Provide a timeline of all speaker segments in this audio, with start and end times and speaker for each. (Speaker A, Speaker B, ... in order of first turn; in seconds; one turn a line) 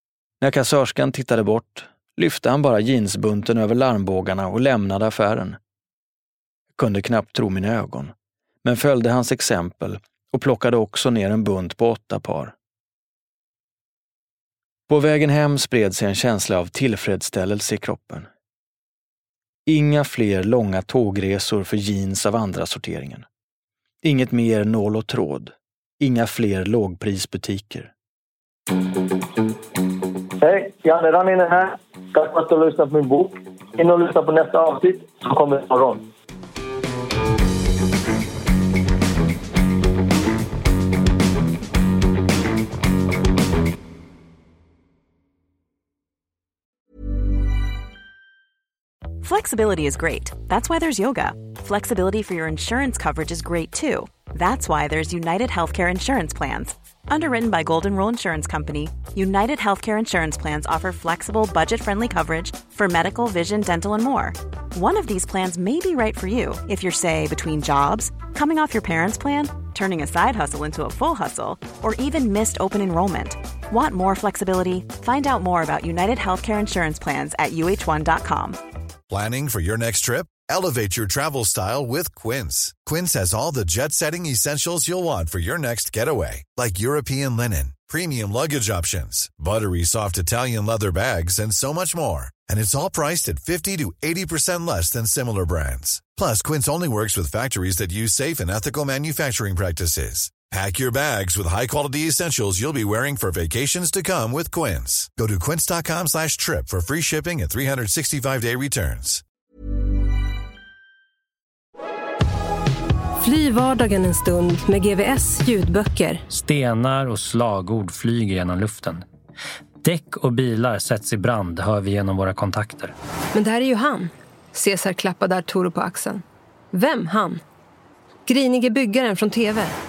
Speaker A: 0.4-5.6
Speaker A: 6.7-8.1
Speaker A: 8.6-12.5
Speaker A: 14.9-18.3
Speaker A: 19.6-23.3
Speaker A: 24.0-27.9
Speaker B: 30.4-36.0
Speaker C: 49.2-78.6
Speaker D: 79.1-109.2
Speaker E: 113.2-116.2
Speaker F: 116.3-119.0
Speaker F: 119.8-122.9
Speaker E: 123.3-127.4
Speaker E: 128.2-129.7